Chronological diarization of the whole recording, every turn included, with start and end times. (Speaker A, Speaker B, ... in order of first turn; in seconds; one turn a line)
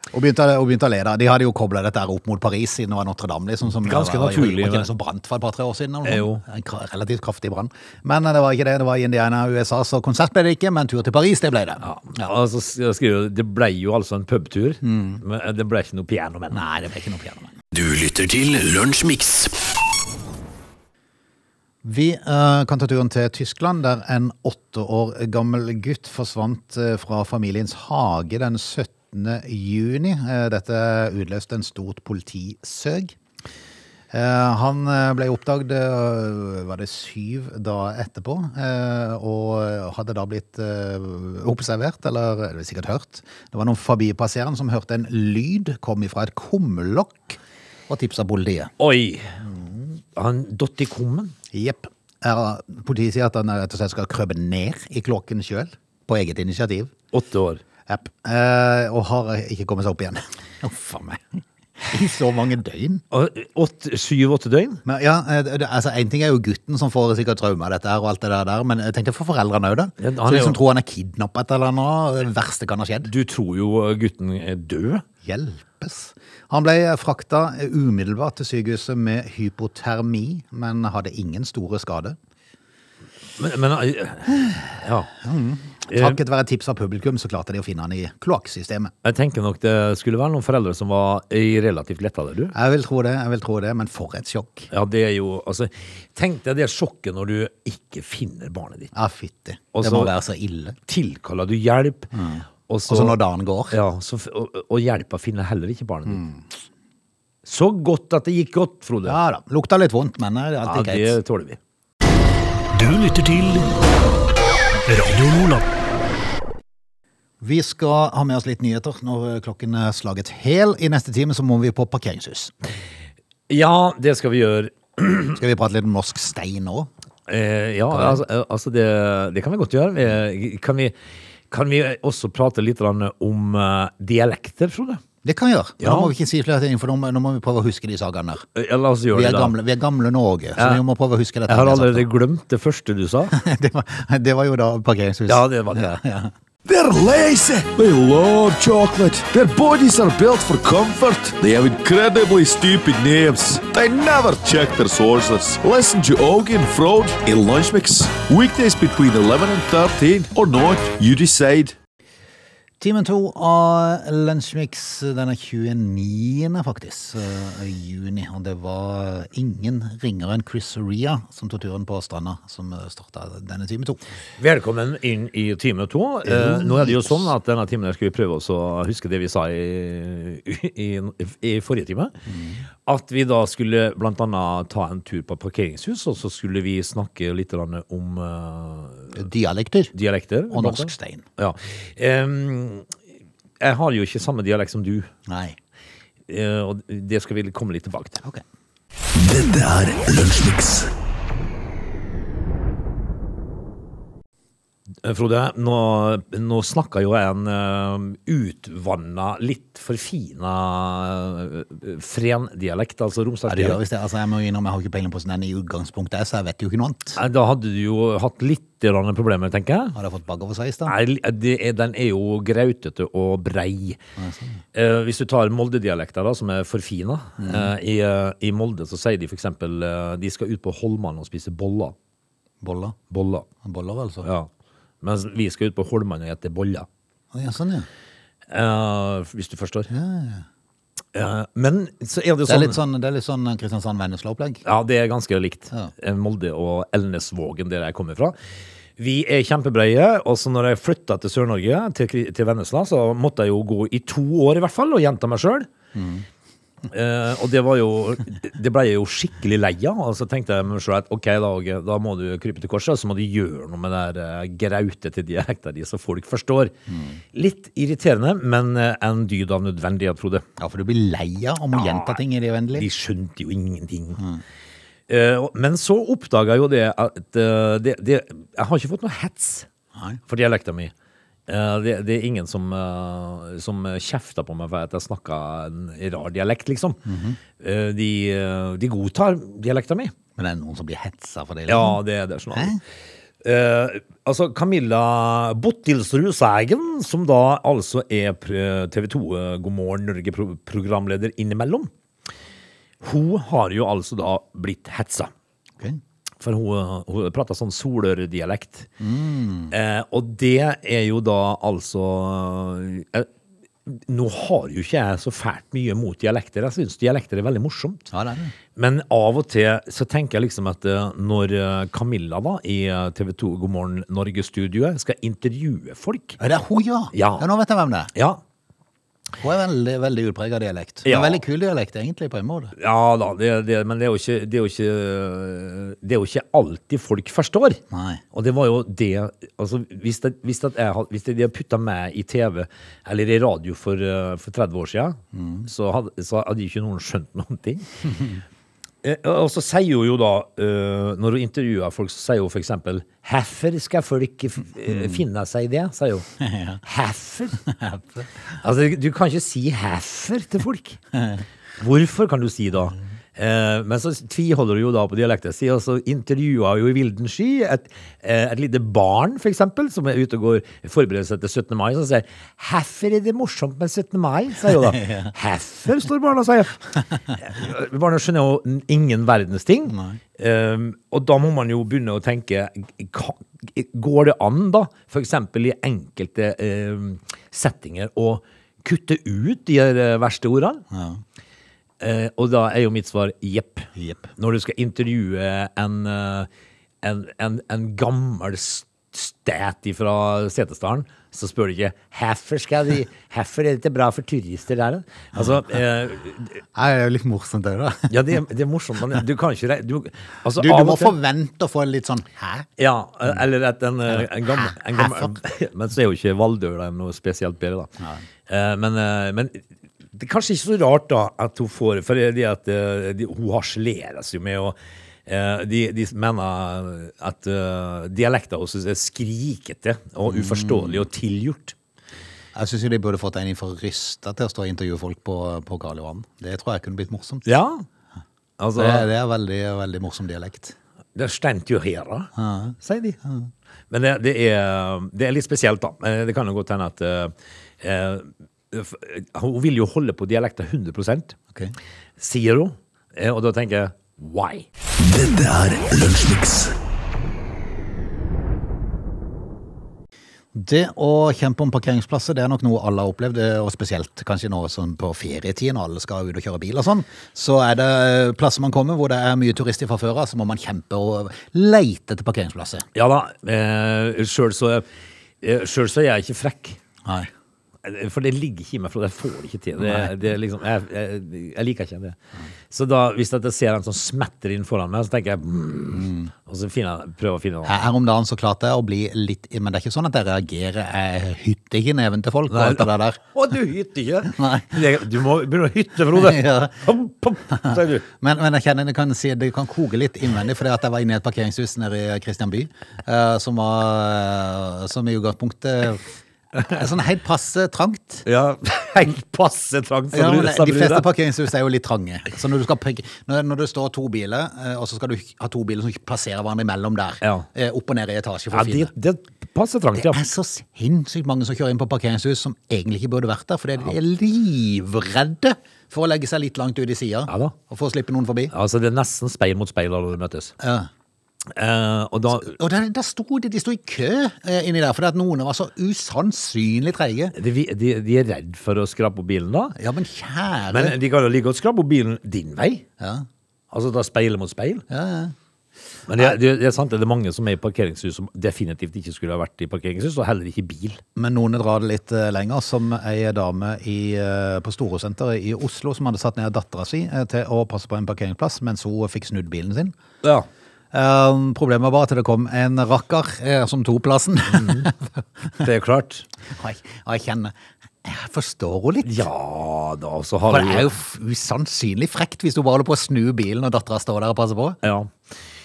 Speaker A: 0.1-11.8
Speaker B: 3.8-4.9
Speaker B: 6.0-6.4
Speaker B: 11.8-16.6
Speaker A: 14.8-15.2
Speaker A: 16.5-17.6
Speaker C: 17.7-19.6
Speaker A: 21.8-33.1
Speaker A: 34.1-47.4
Speaker A: 47.9-48.7
Speaker B: 48.8-49.4
Speaker A: 49.4-49.7
Speaker B: 50.1-51.3
Speaker A: 51.5-56.9
Speaker B: 57.1-57.6
Speaker A: 57.9-63.0
Speaker B: 63.1-64.8
Speaker A: 64.8-73.1
Speaker B: 70.0-70.6
Speaker B: 73.1-75.0
Speaker A: 75.2-82.2
Speaker B: 83.4-85.1
Speaker A: 85.2-88.9
Speaker B: 85.9-86.2
Speaker B: 89.0-92.5
Speaker A: 92.5-94.7
Speaker B: 94.7-98.9
Speaker A: 98.9-100.8
Speaker B: 99.7-100.1
Speaker B: 100.9-102.1
Speaker A: 102.1-103.8
Speaker B: 102.7-103.2
Speaker B: 103.7-106.2
Speaker A: 106.1-106.4
Speaker B: 107.4-109.2
Speaker A: 109.0-111.2
Speaker B: 110.6-111.6
Speaker C: 112.7-113.7
Speaker C: 114.8-115.7
Speaker A: 117.4-122.5
Speaker B: 123.5-125.4
Speaker A: 125.3-126.9
Speaker B: 127.3-130.9
Speaker A: 127.9-128.2
Speaker B: 131.5-135.0
Speaker A: 135.2-138.4
Speaker B: 135.8-136.1
Speaker B: 138.5-139.5
Speaker A: 139.1-142.1
Speaker B: 140.6-140.8
Speaker B: 141.5-143.3
Speaker A: 143.3-146.3
Speaker B: 145.3-145.9
Speaker D: 146.6-161.7
Speaker A: 162.8-174.0
Speaker B: 174.4-182.1
Speaker A: 176.2-177.3
Speaker A: 182.3-182.6
Speaker B: 182.8-189.2
Speaker A: 189.1-189.9
Speaker B: 189.9-192.9
Speaker A: 190.5-191.2
Speaker B: 193.6-195.1
Speaker A: 195.3-195.6
Speaker B: 196.3-198.2
Speaker D: 199.1-200.9
Speaker B: 205.0-213.8
Speaker A: 213.5-217.2
Speaker B: 217.2-220.0
Speaker A: 219.9-220.9
Speaker B: 220.8-224.0
Speaker A: 224.2-224.6
Speaker B: 224.7-231.9
Speaker A: 227.4-227.7
Speaker A: 232.6-233.0
Speaker B: 233.1-233.5
Speaker A: 233.6-234.3
Speaker B: 234.2-234.5
Speaker B: 235.0-236.9
Speaker A: 237.3-237.9
Speaker B: 238.5-239.9
Speaker A: 239.9-240.4
Speaker B: 241.1-242.8
Speaker A: 242.4-244.6
Speaker B: 244.6-248.3
Speaker B: 249.0-255.7
Speaker A: 255.9-256.2
Speaker B: 256.9-266.7
Speaker A: 266.9-267.2
Speaker B: 267.3-270.5
Speaker A: 270.6-272.9
Speaker B: 271.7-272.2
Speaker B: 272.8-274.2
Speaker B: 275.1-279.7
Speaker B: 280.3-280.9
Speaker B: 281.5-287.0
Speaker A: 287.1-287.4
Speaker B: 287.6-290.1
Speaker A: 290.4-292.0
Speaker B: 291.7-292.8
Speaker A: 292.5-292.8
Speaker B: 293.4-301.9
Speaker B: 303.0-305.3
Speaker B: 306.4-308.9
Speaker A: 309.0-309.7
Speaker B: 309.7-313.3
Speaker B: 313.9-318.1
Speaker A: 318.1-318.5
Speaker B: 318.8-326.4
Speaker A: 326.4-328.1
Speaker B: 327.1-327.4
Speaker B: 328.1-328.4
Speaker A: 329.4-332.8
Speaker B: 331.0-331.4
Speaker B: 332.8-337.8
Speaker A: 337.9-338.2
Speaker B: 338.3-347.9
Speaker A: 345.3-345.7
Speaker B: 349.0-356.3
Speaker A: 356.4-356.8
Speaker B: 356.8-357.6
Speaker A: 357.7-358.2
Speaker B: 358.6-361.0
Speaker B: 361.8-390.8
Speaker A: 374.9-375.3
Speaker A: 379.9-380.2
Speaker A: 390.9-391.2
Speaker B: 392.0-396.5
Speaker A: 394.0-394.3
Speaker B: 397.0-406.6
Speaker A: 406.8-408.1
Speaker B: 408.1-411.1
Speaker A: 410.6-412.7
Speaker B: 412.8-417.9
Speaker A: 414.1-415.4
Speaker B: 418.5-419.6
Speaker B: 420.1-431.8
Speaker A: 430.2-431.0
Speaker A: 432.5-437.5
Speaker B: 437.4-437.8
Speaker B: 438.6-439.1
Speaker A: 438.8-440.8
Speaker B: 441.1-443.2
Speaker A: 442.4-443.5
Speaker B: 443.9-451.4
Speaker B: 452.2-454.6
Speaker D: 455.0-456.8
Speaker A: 460.5-472.9
Speaker B: 472.9-474.9
Speaker B: 475.4-476.8
Speaker A: 477.0-477.3
Speaker B: 477.8-482.2
Speaker A: 479.8-480.1
Speaker B: 482.7-487.8
Speaker A: 485.9-486.3
Speaker A: 487.6-493.2
Speaker B: 492.5-498.0
Speaker A: 494.3-494.8
Speaker A: 496.1-496.9
Speaker A: 497.5-508.2
Speaker B: 508.2-511.1
Speaker A: 510.1-518.9
Speaker B: 518.5-520.2
Speaker A: 520.0-528.5
Speaker B: 527.3-527.5
Speaker B: 528.5-530.5
Speaker A: 530.6-530.9
Speaker B: 531.5-532.5
Speaker A: 532.3-537.3
Speaker B: 537.3-539.8
Speaker A: 539.8-541.0
Speaker B: 540.7-542.9
Speaker A: 543.0-543.2
Speaker B: 543.7-544.8
Speaker A: 544.9-545.3
Speaker B: 546.1-551.0
Speaker A: 551.1-560.0
Speaker B: 560.2-560.5
Speaker A: 560.9-565.1
Speaker B: 564.5-564.9
Speaker B: 565.6-566.3
Speaker A: 566.5-569.2
Speaker B: 569.0-570.9
Speaker A: 570.5-574.8
Speaker B: 574.8-575.1